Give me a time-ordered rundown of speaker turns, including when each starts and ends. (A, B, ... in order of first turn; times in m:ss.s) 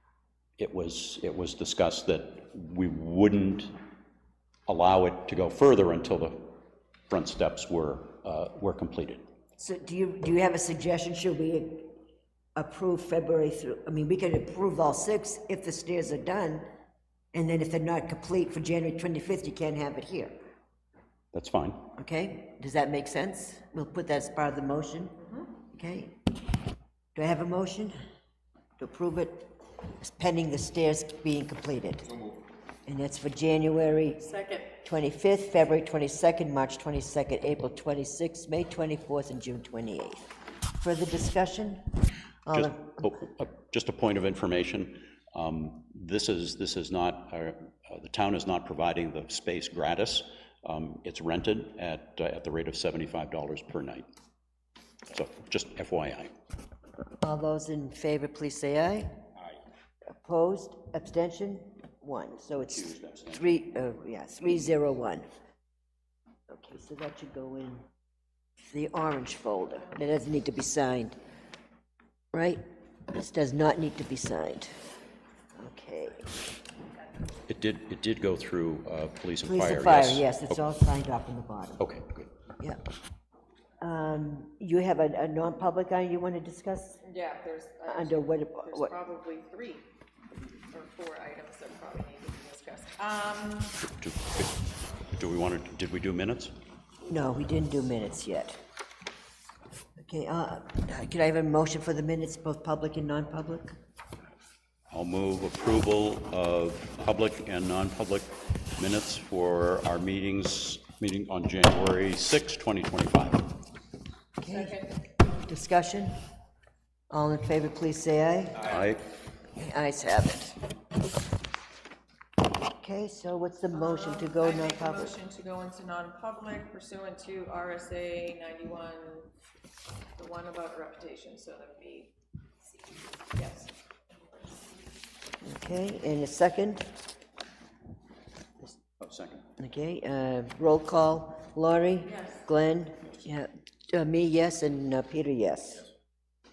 0:00.6-0:03.8 A
0:04.7-0:06.5 A
0:07.1-0:09.2 A
0:09.6-0:11.9 B
0:12.5-0:16.6 B
0:17.3-0:20.4 B
0:21.3-0:21.9 A
0:22.0-0:26.2 B
0:27.2-0:28.0 B
0:28.8-0:32.1 B
0:32.8-0:34.2 B
0:34.2-0:34.7 C
0:34.8-0:43.0 B
0:42.5-0:54.1 A
0:55.1-0:56.3 A
0:57.2-0:59.1 B
1:00.1-1:05.2 B
1:02.7-1:03.6 A
1:06.5-1:07.8 B
1:08.7-1:11.1 B
1:12.3-1:14.8 B
1:15.6-1:16.3 B
1:17.5-1:20.3 A
1:19.4-1:21.8 B
1:21.8-1:22.3 A
1:23.8-1:27.0 B
1:27.0-1:29.9 C
1:27.8-1:28.9 B
1:30.7-1:33.8 C
1:33.8-1:34.6 A
1:35.1-1:36.5 A
1:37.1-1:38.6 B
1:40.0-1:43.8 B
1:44.9-1:53.5 A
1:54.4-1:56.1 B
1:54.5-1:54.8 C
1:57.1-1:58.8 B
1:58.6-1:59.0 A
1:59.6-2:00.6 B
2:02.8-2:05.1 B
2:03.7-2:09.3 C
2:10.2-2:12.1 C
2:13.3-2:13.7 C
2:15.4-2:16.9 B
2:19.0-2:19.5 A
2:19.6-2:25.9 B
2:22.1-2:22.4 C